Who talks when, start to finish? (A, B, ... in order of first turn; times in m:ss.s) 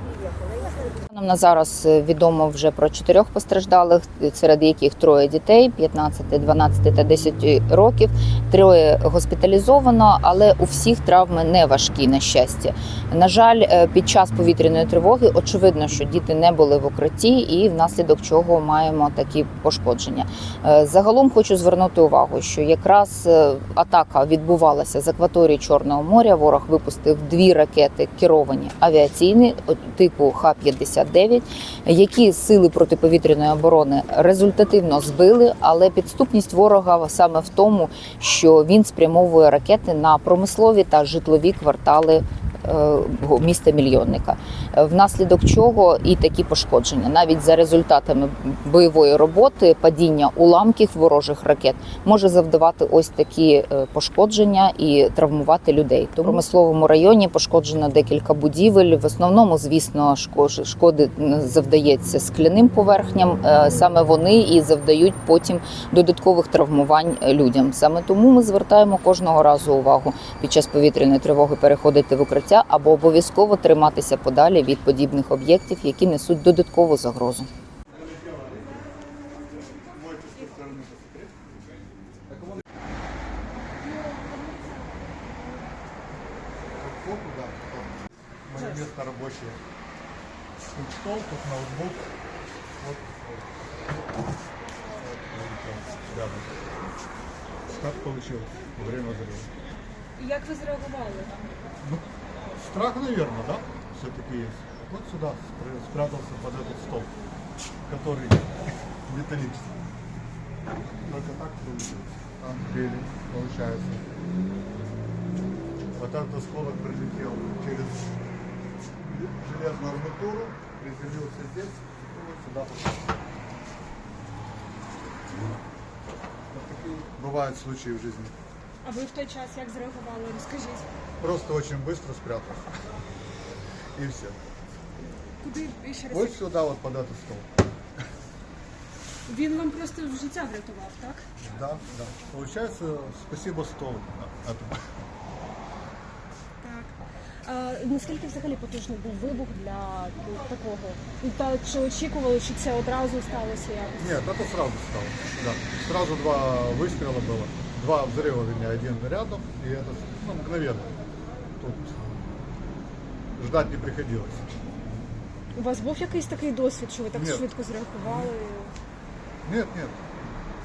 0:00.9-1:17.5 A
1:18.1-1:18.7 B
1:19.7-1:21.4 B
1:24.0-1:24.4 C
1:26.7-1:29.6 B
1:30.7-1:32.1 B
1:32.8-1:33.5 B
1:34.9-1:36.6 B
1:37.7-1:39.5 B
1:40.2-1:41.4 C
1:42.6-1:47.1 B
1:47.9-1:48.5 B
1:49.0-1:49.7 B
1:51.0-1:54.0 B
1:55.9-1:58.0 B
1:59.0-2:03.1 B
2:06.5-2:08.3 B
2:08.8-2:10.9 C
2:11.2-2:12.7 B
2:14.0-2:14.4 B
2:15.4-2:16.4 C
2:16.1-2:17.5 B
2:19.3-2:21.2 C
2:21.4-2:24.8 B
2:26.6-2:34.2 C
2:34.0-2:40.9 B
2:41.6-2:42.2 B
2:43.3-2:44.4 B
2:45.5-2:48.7 C
2:47.1-2:47.5 B
2:48.0-2:48.3 B
2:49.4-2:50.0 B